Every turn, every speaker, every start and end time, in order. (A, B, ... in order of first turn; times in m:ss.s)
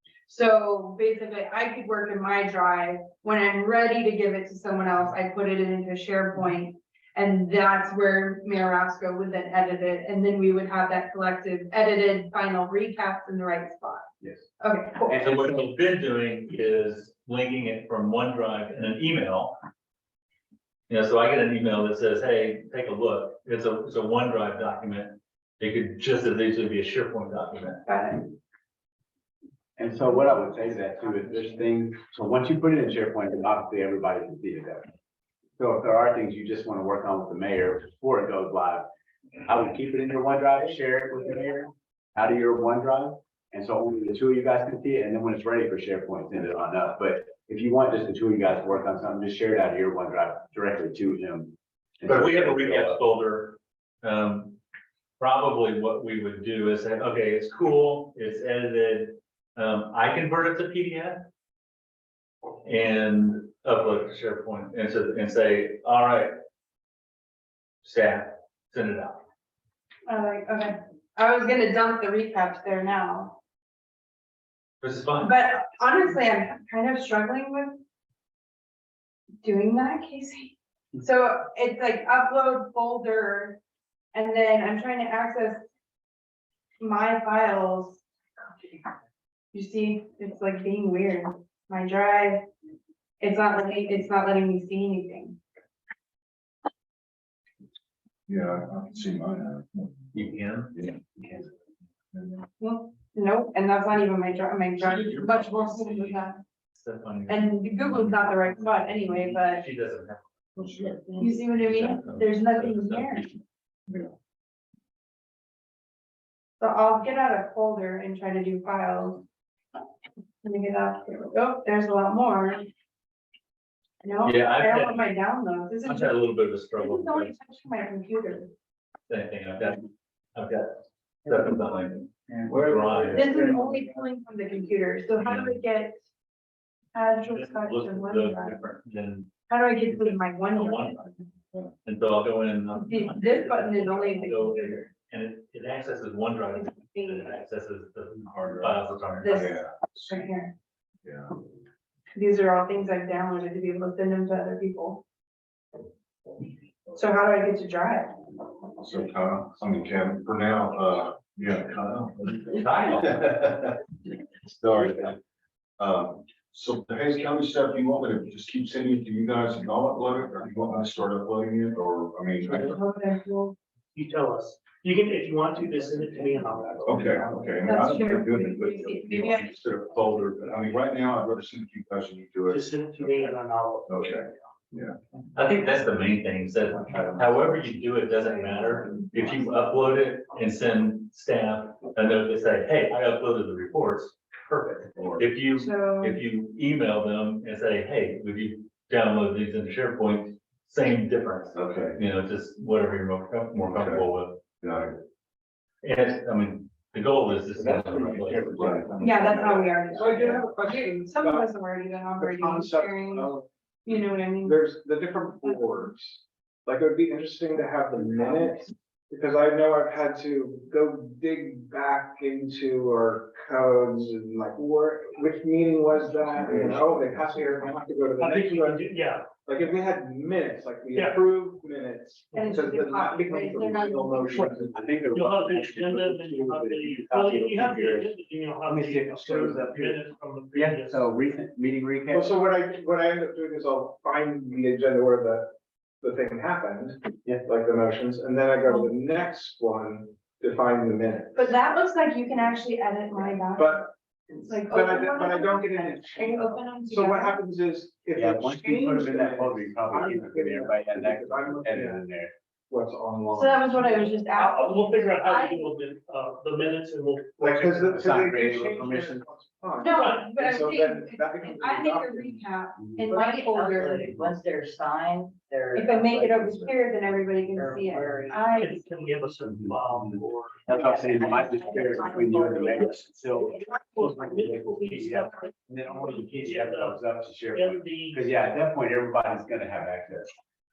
0:00.3-0:14.1 A
0:14.6-0:15.3 A
0:15.2-0:19.6 B
0:20.9-0:27.8 B
0:27.8-0:28.3 A
0:29.8-0:34.9 C
0:35.6-0:38.9 C
0:39.4-0:53.0 C
0:52.0-0:54.6 B
0:55.2-1:01.2 B
1:02.6-1:06.3 B
1:07.8-1:09.2 B
1:10.1-1:13.4 A
1:14.8-1:15.3 B
1:15.2-1:17.8 A
1:19.4-1:23.6 A
1:24.1-1:25.6 A
1:26.8-1:28.0 A
1:29.5-1:32.4 A
1:33.2-1:35.4 A
1:38.3-1:40.1 D
1:40.1-1:40.8 B
1:42.6-1:46.4 A
1:44.9-1:46.2 B
1:46.7-1:50.2 B
1:47.3-1:49.6 A
1:50.6-1:51.3 D
1:51.2-1:53.3 A
1:51.6-1:53.4 B
1:56.6-1:59.2 A
2:00.4-2:02.7 A
2:04.0-2:06.2 A
2:04.2-2:05.1 B
2:05.8-2:07.3 B
2:06.7-2:08.5 A
2:09.1-2:13.3 B
2:12.5-2:14.0 E
2:13.1-2:16.0 A
2:15.2-2:15.6 B
2:16.9-2:18.6 A
2:17.3-2:19.3 B
2:19.5-2:21.2 A
2:19.9-2:21.0 B
2:21.8-2:29.4 B
2:22.7-2:24.9 A
2:26.5-2:27.4 A
2:28.2-2:29.7 D
2:29.2-2:30.5 A
2:31.0-2:31.3 D
2:32.1-2:35.0 A
2:36.9-2:38.2 A
2:38.8-2:43.8 D
2:42.5-2:43.6 B
2:44.5-2:45.2 D
2:45.8-2:52.8 D
2:52.4-2:52.7 F
2:52.6-2:53.6 A
2:53.9-2:57.4 F
2:56.8-3:03.3 D
2:57.6-2:59.5 A
2:59.4-3:00.3 B
3:02.5-3:04.0 F
3:03.9-3:05.0 D
3:05.3-3:24.4 B
3:08.1-3:09.4 A
3:15.0-3:15.2 D
3:15.5-3:16.2 A
3:21.5-3:22.0 D
3:23.7-3:24.1 D
3:24.6-3:25.0 D
3:25.8-3:28.8 B
3:27.6-3:29.5 C
3:27.9-3:29.7 D
3:29.0-3:34.6 A
3:29.9-3:31.5 E
3:32.2-3:33.5 E
3:34.4-3:48.9 E
3:46.4-3:47.2 C
3:48.2-3:49.3 F
3:49.4-3:54.8 E
3:52.3-3:54.3 A
3:54.3-4:01.2 F
3:54.4-3:58.1 C
3:58.6-4:00.0 C
4:00.5-4:02.4 C
4:02.1-4:11.5 E
4:11.3-4:17.4 A
4:13.5-4:22.0 E
4:18.1-4:22.3 C
4:22.7-4:24.2 E
4:23.3-4:25.8 A
4:24.3-4:27.7 F
4:27.4-4:32.4 E
4:27.4-4:29.2 C
4:29.8-4:34.2 A
4:29.9-4:30.3 F
4:33.0-4:36.8 G
4:35.7-4:38.7 A
4:37.5-4:38.8 G
4:38.4-4:40.7 F
4:39.5-4:50.3 C
4:40.7-4:42.9 G
4:42.6-4:48.3 F